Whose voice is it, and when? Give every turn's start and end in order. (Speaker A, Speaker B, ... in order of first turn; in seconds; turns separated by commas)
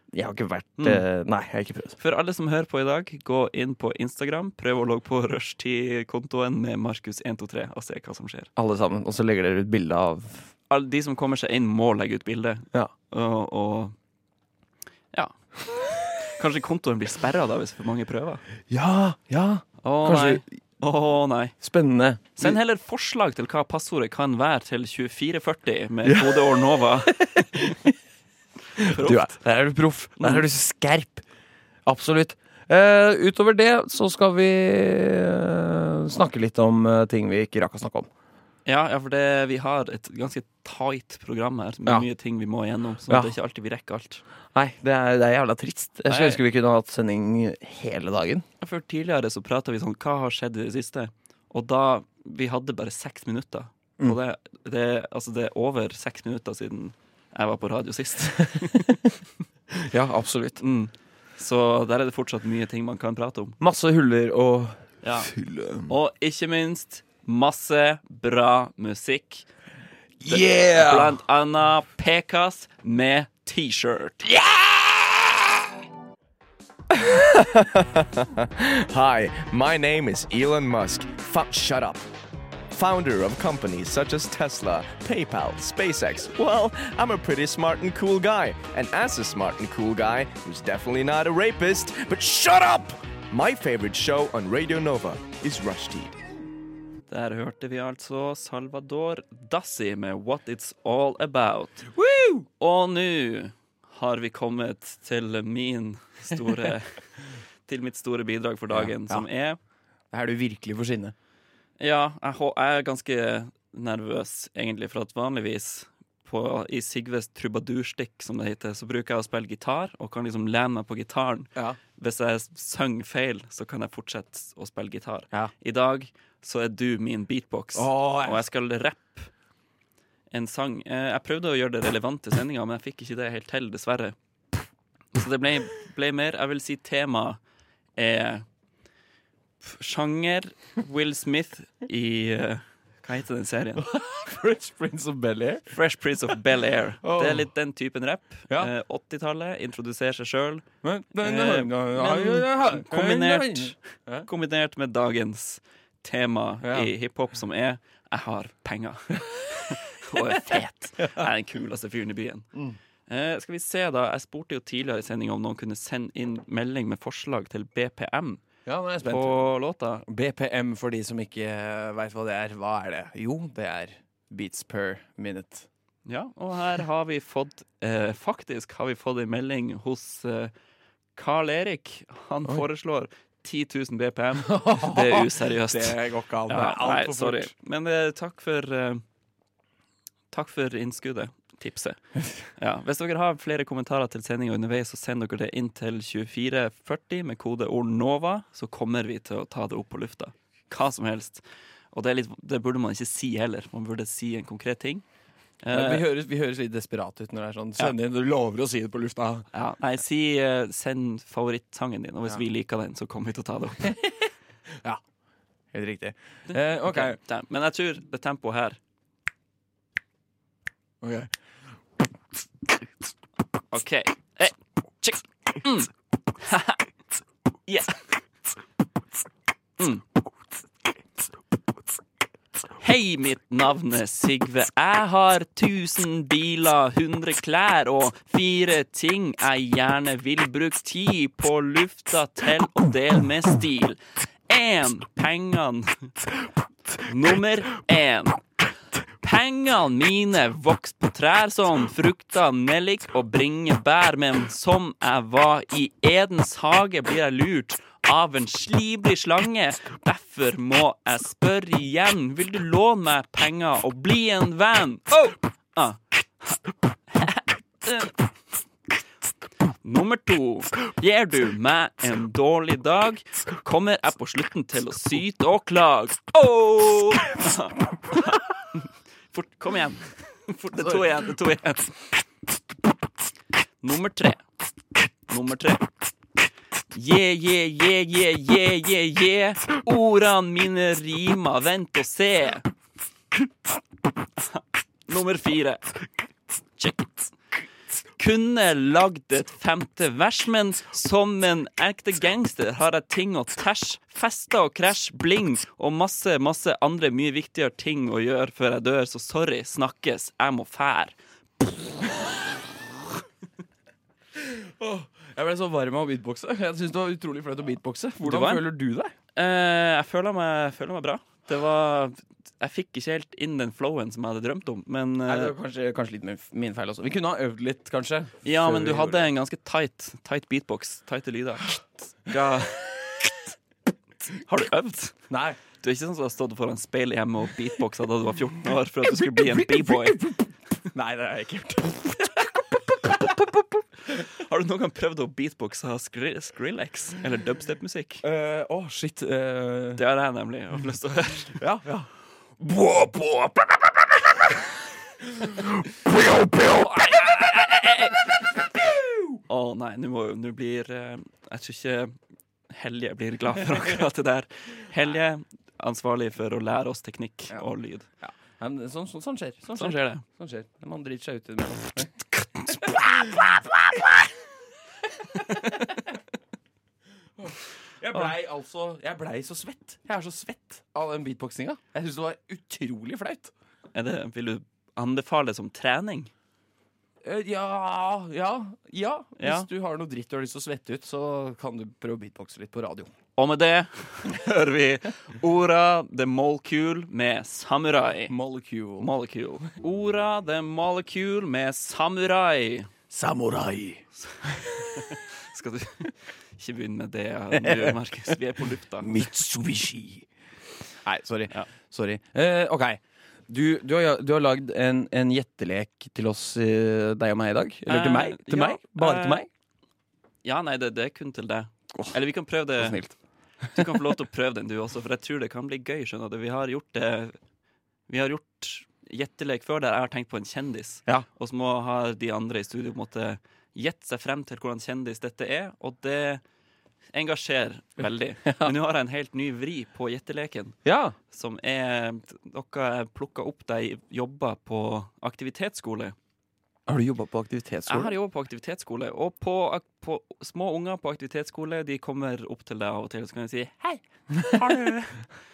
Speaker A: 0.1-2.0, Speaker B: 0.8-1.0, Speaker B: 2.0-8.5, Speaker A: 8.6-10.5, Speaker B: 10.7-13.9, Speaker B: 15.1-18.4, Speaker A: 18.7-20.4, Speaker B: 19.8-21.6, Speaker A: 21.6-22.6, Speaker B: 22.4-27.6, Speaker A: 26.1-27.9, Speaker B: 28.8-29.4, Speaker A: 28.8-31.2, Speaker B: 30.2-30.4, Speaker A: 31.9-38.1, Speaker B: 38.7-44.2, Speaker A: 44.5-48.5, Speaker B: 46.1-46.4, Speaker B: 48.6-59.1, Speaker A: 59.7-60.6, Speaker B: 60.6-63.6, Speaker A: 63.6-65.9, Speaker B: 65.0-65.3, Speaker B: 65.9-69.5, Speaker A: 70.2-71.2, Speaker B: 70.3-74.3, Speaker A: 74.2-75.6, Speaker C: 76.9-82.1, Speaker C: 82.7-96.2, Speaker B: 97.1-101.9, Speaker A: 101.9-102.5, Speaker B: 102.6-107.0, Speaker B: 107.7-109.6, Speaker A: 108.7-109.3, Speaker A: 110.1-111.2, Speaker B: 111.8-129.3, Speaker A: 127.8-128.5, Speaker B: 130.3-134.2, Speaker B: 135.1-137.4, Speaker B: 138.0-138.5, Speaker B: 139.6-143.9, Speaker A: 143.8-145.7, Speaker B: 145.7-150.7, Speaker A: 147.0-147.5, Speaker A: 150.8-154.3, Speaker B: 151.2-162.5, Speaker A: 156.6-156.9, Speaker B: 163.1-168.4, Speaker A: 168.7-169.4, Speaker B: 169.0-170.1, Speaker A: 170.1-175.7, Speaker B: 176.1-180.5, Speaker B: 181.2-189.0, Speaker A: 184.4-187.5, Speaker B: 190.3-192.0, Speaker B: 192.6-205.0, Speaker B: 205.6-206.1, Speaker A: 205.7-209.5, Speaker B: 209.5-214.0, Speaker A: 215.7-217.2, Speaker B: 216.5-218.8, Speaker A: 221.0-221.3, Speaker B: 223.7-226.8, Speaker B: 227.7-228.0, Speaker B: 229.8-230.0, Speaker B: 232.8-246.1, Speaker B: 247.0-248.4, Speaker B: 249.2-266.6, Speaker B: 267.1-268.2, Speaker B: 269.8-282.1, Speaker B: 283.8-284.4, Speaker B: 285.3-285.9, Speaker B: 286.9-292.7, Speaker B: 294.4-295.9, Speaker B: 296.8-297.2, Speaker B: 298.2-311.2, Speaker A: 314.4-319.1, Speaker B: 318.2-318.7, Speaker B: 319.4-325.5, Speaker A: 325.3-329.3, Speaker B: 328.4-333.3, Speaker B: 334.3-335.2, Speaker A: 335.3-335.6, Speaker B: 335.8-340.2, Speaker A: 339.1-343.8, Speaker B: 344.1-348.2, Speaker A: 348.2-350.0, Speaker B: 350.0-351.6, Speaker A: 351.6-354.7, Speaker A: 355.2-359.4, Speaker B: 359.5-362.2, Speaker B: 362.7-368.1, Speaker A: 368.2-374.3, Speaker B: 369.8-370.2, Speaker A: 375.2-376.1, Speaker A: 377.4-383.5, Speaker B: 383.9-386.3, Speaker A: 387.2-393.1, Speaker B: 389.4-389.7, Speaker B: 393.4-398.3, Speaker A: 398.3-399.1, Speaker B: 399.0-402.9, Speaker A: 403.1-404.0, Speaker B: 404.2-409.3, Speaker A: 407.5-408.0, Speaker A: 409.0-410.3, Speaker A: 411.0-419.5, Speaker B: 417.9-419.4, Speaker B: 420.4-423.0, Speaker A: 422.8-423.1, Speaker B: 423.7-427.4, Speaker B: 428.1-436.4, Speaker B: 437.1-440.8, Speaker A: 438.5-438.7, Speaker A: 440.9-441.1, Speaker B: 441.3-446.1, Speaker A: 446.9-448.1, Speaker B: 447.9-455.3